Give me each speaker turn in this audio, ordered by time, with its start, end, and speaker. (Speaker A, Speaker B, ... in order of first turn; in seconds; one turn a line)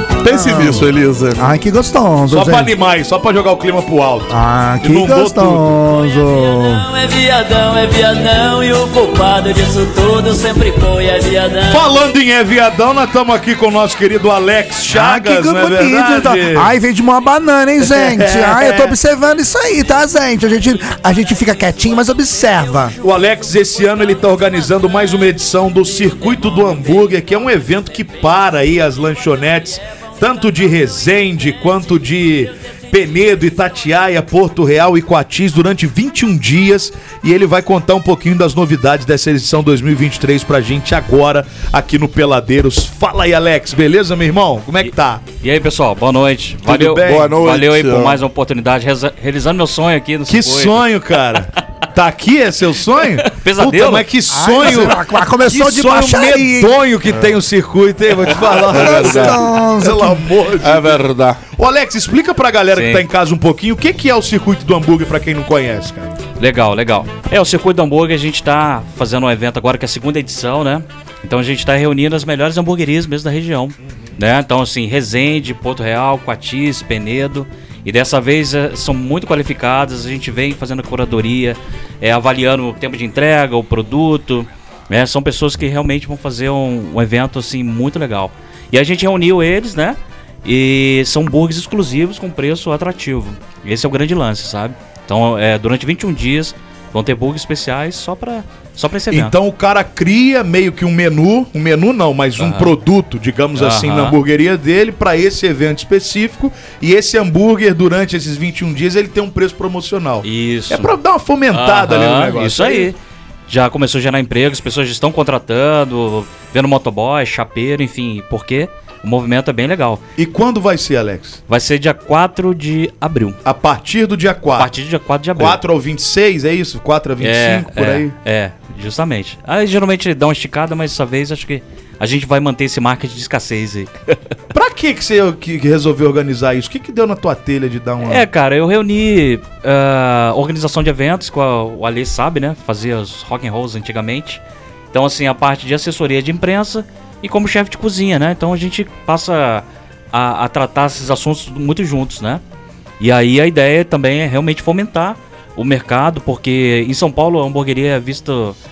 Speaker A: 0.2-1.5
Speaker B: 0.2-2.7
Speaker C: 2.3-5.8
Speaker B: 4.3-6.9
Speaker D: 6.3-11.9
Speaker C: 11.7-16.7
Speaker B: 14.9-22.9
Speaker C: 17.8-18.9
Speaker C: 23.0-45.2
Speaker E: 44.8-50.8
Speaker C: 46.6-47.4
Speaker A: 47.0-48.2
Speaker C: 50.3-61.0
Speaker E: 53.2-54.1
Speaker B: 54.3-56.8
Speaker B: 58.3-60.3
Speaker A: 58.6-59.4
Speaker A: 60.6-61.4
Speaker C: 61.5-66.1
Speaker E: 62.7-63.0
Speaker E: 66.4-99.3
Speaker C: 99.1-112.9
Speaker E: 102.4-102.7
Speaker E: 103.5-104.2
Speaker E: 110.2-111.0
Speaker E: 111.5-113.0
Speaker E: 113.5-120.0
Speaker C: 120.2-121.4
Speaker E: 121.5-123.4
Speaker C: 123.4-124.7
Speaker E: 124.5-125.6
Speaker C: 125.3-128.1
Speaker E: 127.2-134.2
Speaker C: 134.5-138.2
Speaker E: 138.0-144.4
Speaker E: 144.9-152.4
Speaker E: 153.0-158.6